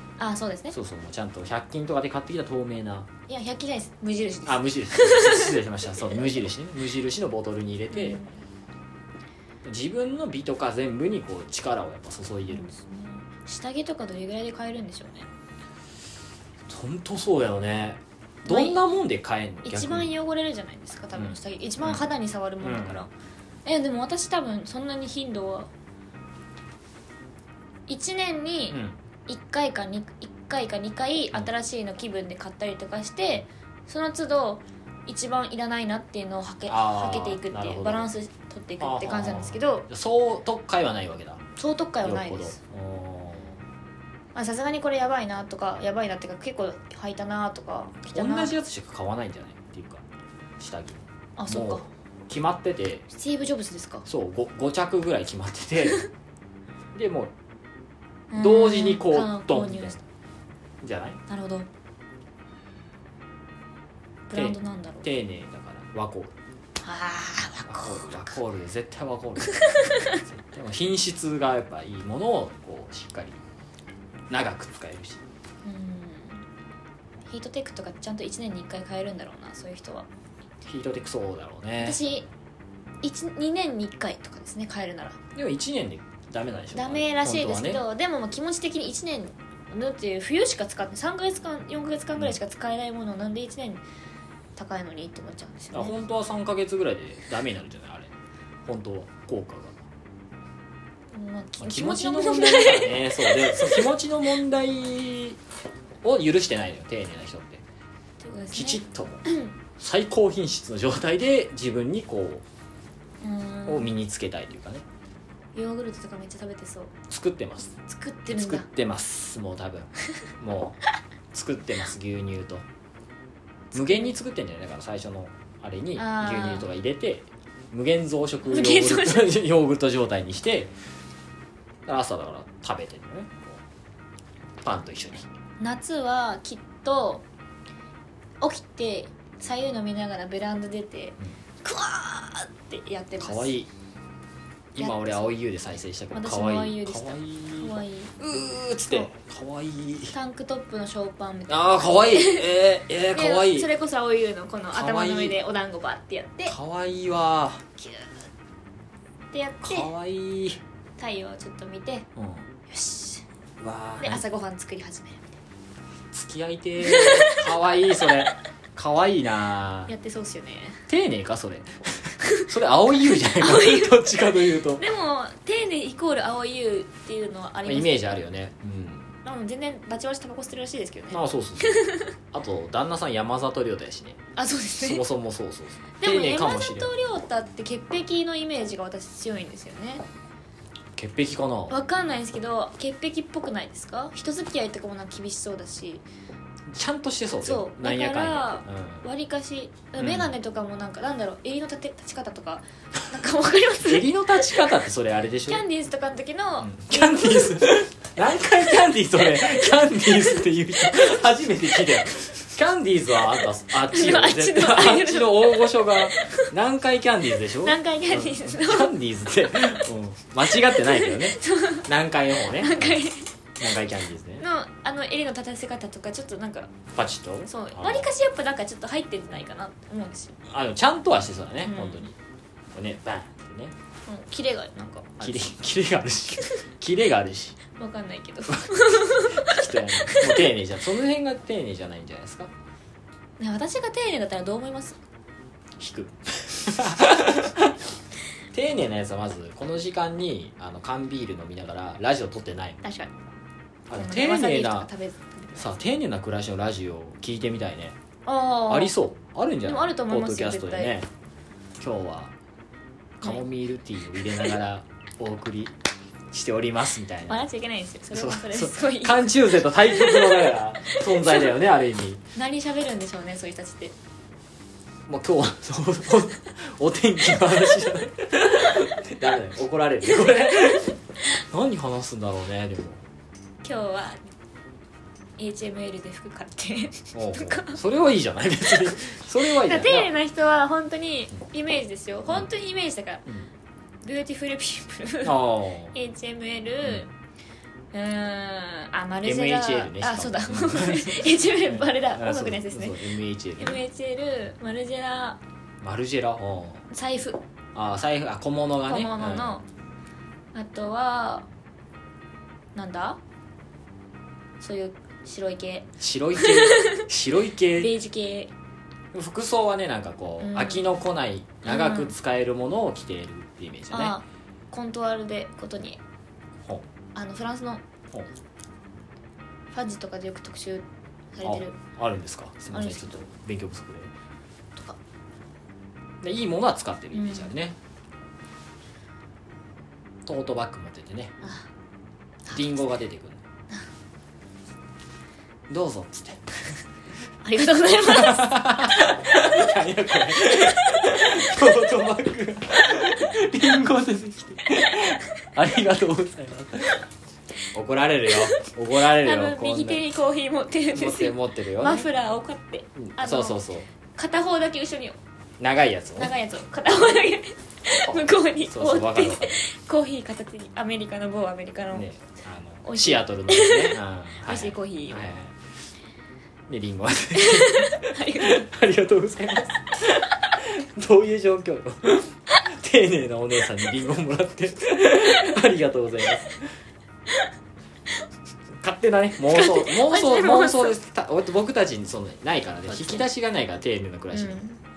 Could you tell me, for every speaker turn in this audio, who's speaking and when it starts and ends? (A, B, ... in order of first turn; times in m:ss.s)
0:00.2-0:00.8 A
0:00.7-0:03.1 B
0:03.3-0:06.3 A
0:04.5-0:08.2 B
0:07.9-0:08.4 A
0:09.6-0:12.7 B
0:12.5-0:15.3 A
0:16.7-0:20.1 B
0:18.5-0:18.8 A
0:19.6-0:23.1 A
0:21.2-0:22.1 B
0:22.6-0:23.1 B
0:23.6-0:25.7 A
0:27.9-0:39.9 A
0:28.7-0:29.0 B
0:36.7-0:38.1 B
0:38.8-0:41.4 B
0:41.6-0:42.6 A
0:42.0-0:43.6 B
0:44.4-0:48.5 A
0:48.1-0:50.0 B
0:50.6-0:53.1 B
0:51.4-0:51.9 A
0:53.1-0:54.1 A
0:54.1-0:56.1 B
0:56.9-0:57.3 B
0:58.3-1:00.0 A
0:58.3-1:00.0 B
1:00.8-1:01.2 B
1:01.3-1:01.7 A
1:04.3-1:05.1 A
1:04.3-1:06.4 B
1:06.8-1:08.4 A
1:07.6-1:13.4 B
1:09.6-1:10.2 A
1:14.3-1:15.2 B
1:15.6-1:16.4 A
1:17.3-1:20.1 A
1:20.6-1:22.0 B
1:21.8-1:22.3 A
1:23.0-1:25.2 A
1:25.4-1:27.8 B
1:26.7-1:33.8 A
1:34.6-1:36.0 A
1:35.7-1:38.1 B
1:38.7-1:39.8 B
1:41.1-1:43.9 A
1:41.6-1:45.4 B
1:46.0-1:47.6 B
1:48.2-1:49.6 A
1:48.5-1:49.3 B
1:49.8-1:52.4 B
1:53.2-1:53.9 A
1:53.7-1:54.8 B
1:55.5-1:56.9 A
1:57.1-1:57.8 B
1:57.9-1:58.7 A
1:58.3-2:00.8 B
2:01.3-2:02.6 B
2:03.7-2:04.2 A
2:03.7-2:10.7 B
2:06.0-2:06.7 A
2:08.5-2:09.4 A
2:11.9-2:13.6 B
2:14.6-2:15.3 B
2:15.6-2:17.2 A
2:18.4-2:23.5 A
2:23.2-2:23.7 B
2:24.8-2:30.2 B
2:24.8-2:25.3 A
2:26.1-2:28.2 A
2:30.1-2:32.5 A
2:31.5-2:33.7 B
2:33.1-2:36.6 A
2:34.7-2:35.4 B
2:36.5-2:37.6 B
2:37.8-2:38.2 A
2:39.3-2:39.9 A
2:39.6-2:40.6 B
2:41.0-2:42.1 A
2:42.2-2:42.5 B
2:42.7-2:43.3 A
2:43.6-2:44.2 B
2:44.0-2:45.4 A
2:46.1-2:49.9 B
2:46.8-2:47.5 A
2:49.9-2:50.8 A
2:50.9-2:54.8 B
2:53.1-2:58.1 A
2:57.7-2:59.1 B
2:59.2-3:02.1 A
3:01.1-3:04.2 B
3:04.4-3:05.0 A
3:04.8-3:06.9 B
3:06.0-3:10.0 A
3:11.0-3:11.8 B
3:11.7-3:16.0 A
3:16.7-3:19.1 B
3:17.4-3:24.7 A
3:20.0-3:20.3 B
3:23.8-3:25.6 B
3:25.5-3:27.7 A
3:26.6-3:44.5 B
3:29.4-3:31.2 A
3:33.9-3:36.5 A
3:37.6-3:39.0 A
3:40.6-3:43.3 A
3:44.4-3:46.7 A
3:47.0-3:48.1 B
3:47.5-3:50.4 A
3:50.5-3:52.2 B
3:51.6-3:52.1 A
3:52.7-3:53.7 B
3:54.1-3:55.5 A
3:55.2-3:57.6 B
3:57.7-4:00.6 A
3:58.5-4:02.5 B
4:03.4-4:05.0 A
4:05.8-4:07.8 B
4:08.5-4:12.8 B
4:12.8-4:13.1 A
4:13.9-4:14.9 B
4:13.9-4:15.8 A
4:15.6-4:18.0 B
4:18.2-4:18.9 A
4:18.7-4:21.1 B
4:19.6-4:21.0 A
4:21.8-4:22.3 B
4:23.2-4:25.7 B
4:26.3-4:27.5 B
4:27.3-4:31.5 A
4:28.1-4:32.2 B
4:32.4-4:34.0 A
4:35.1-4:43.0 B
4:40.0-4:40.9 A
4:43.6-4:44.2 A
4:45.4-4:47.8 A
4:47.1-4:50.1 B
4:49.5-4:53.2 A
4:54.0-4:55.4 A
4:55.2-4:56.0 B
4:55.9-4:57.1 A
4:57.9-5:05.4 A
4:59.2-5:03.8 B
5:05.8-5:06.9 B
5:06.9-5:07.4 A
5:07.8-5:09.6 B
5:08.9-5:09.6 A
5:10.5-5:11.5 A
5:12.8-5:13.2 A
5:14.6-5:17.0 A
5:16.0-5:17.9 B
5:17.8-5:18.5 A
5:19.1-5:24.2 B
5:20.4-5:20.9 A
5:21.6-5:22.1 A
5:23.9-5:26.0 A
5:27.2-5:27.8 A
5:29.7-5:31.8 A
5:31.4-5:34.1 B
5:32.7-5:33.2 A
5:36.2-5:37.8 B
5:37.1-5:37.5 A
5:40.3-5:41.4 B
5:41.4-5:41.7 A
5:42.5-5:43.4 B
5:45.7-5:46.5 B
5:47.4-5:48.7 A
5:48.0-5:57.0 B
5:50.4-5:51.3 A
5:57.7-6:00.0 B
5:58.3-6:05.2 A
6:00.9-6:02.1 B
6:03.0-6:03.9 B
6:05.6-6:06.3 B
6:06.2-6:12.1 A
6:07.9-6:09.7 B
6:11.9-6:15.6 B
6:12.8-6:15.3 A
6:16.7-6:26.7 B
6:17.4-6:18.6 A
6:28.8-6:34.6 B
6:29.5-6:31.0 A
6:32.9-6:33.3 A
6:34.3-6:34.8 A